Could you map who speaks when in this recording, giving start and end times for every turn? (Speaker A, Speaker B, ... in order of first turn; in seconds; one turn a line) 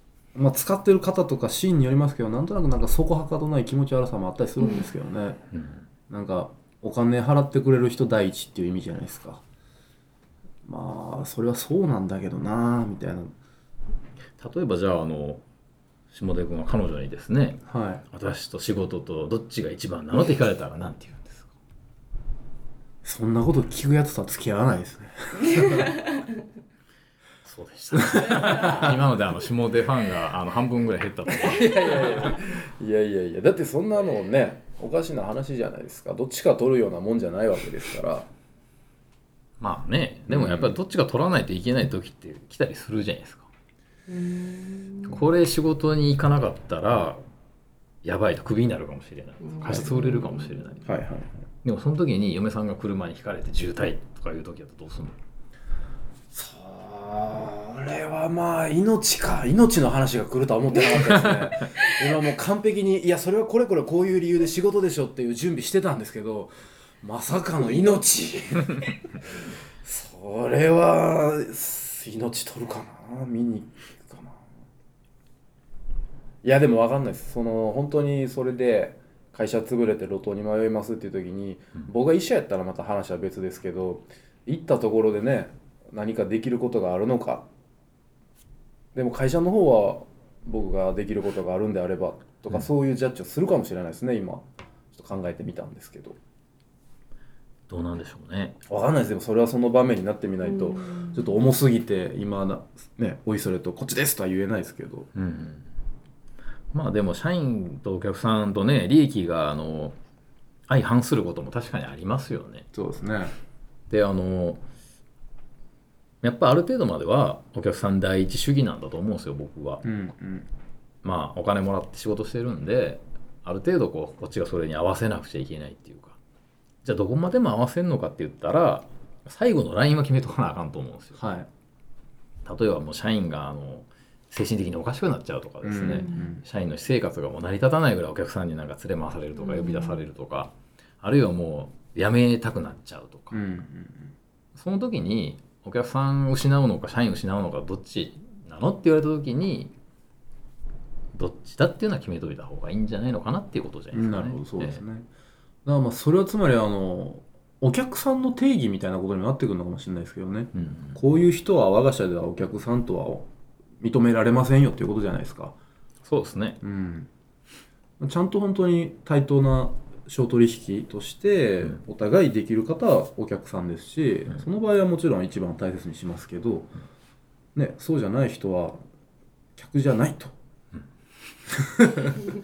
Speaker A: 0.3-5.4
Speaker B: 4.6-4.9
Speaker C: 5.5-5.9
Speaker A: 6.1-9.4
Speaker A: 10.7-13.3
Speaker C: 14.4-15.4
Speaker C: 16.1-21.5
Speaker A: 17.7-18.1
Speaker A: 23.0-26.1
Speaker C: 27.4-32.1
Speaker A: 27.9-29.0
Speaker A: 31.4-38.3
Speaker C: 39.6-43.5
Speaker A: 40.3-40.8
Speaker B: 44.1-45.2
Speaker C: 45.1-47.2
Speaker C: 48.0-50.9
Speaker B: 49.4-50.8
Speaker A: 50.9-51.4
Speaker C: 51.6-55.2
Speaker A: 56.3-69.2
Speaker A: 69.8-74.4
Speaker A: 76.4-87.5
Speaker A: 88.9-96.2
Speaker C: 97.7-98.6
Speaker A: 98.7-105.1
Speaker B: 100.4-101.3
Speaker C: 105.2-105.7
Speaker C: 106.7-110.0
Speaker C: 110.7-112.7
Speaker A: 112.7-113.4
Speaker C: 113.9-114.6
Speaker C: 116.2-119.8
Speaker A: 119.8-120.5
Speaker C: 121.0-126.2
Speaker C: 126.8-131.2
Speaker A: 131.2-131.5
Speaker C: 132.4-143.4
Speaker A: 135.6-136.4
Speaker B: 135.9-136.3
Speaker B: 139.3-140.0
Speaker A: 143.3-144.1
Speaker C: 144.6-149.7
Speaker C: 151.1-154.8
Speaker A: 153.9-155.1
Speaker A: 155.7-163.3
Speaker C: 160.6-161.0
Speaker A: 163.8-165.6
Speaker C: 166.1-166.6
Speaker A: 166.6-167.1
Speaker A: 168.0-176.7
Speaker A: 177.6-178.8
Speaker A: 179.6-180.4
Speaker A: 181.6-182.2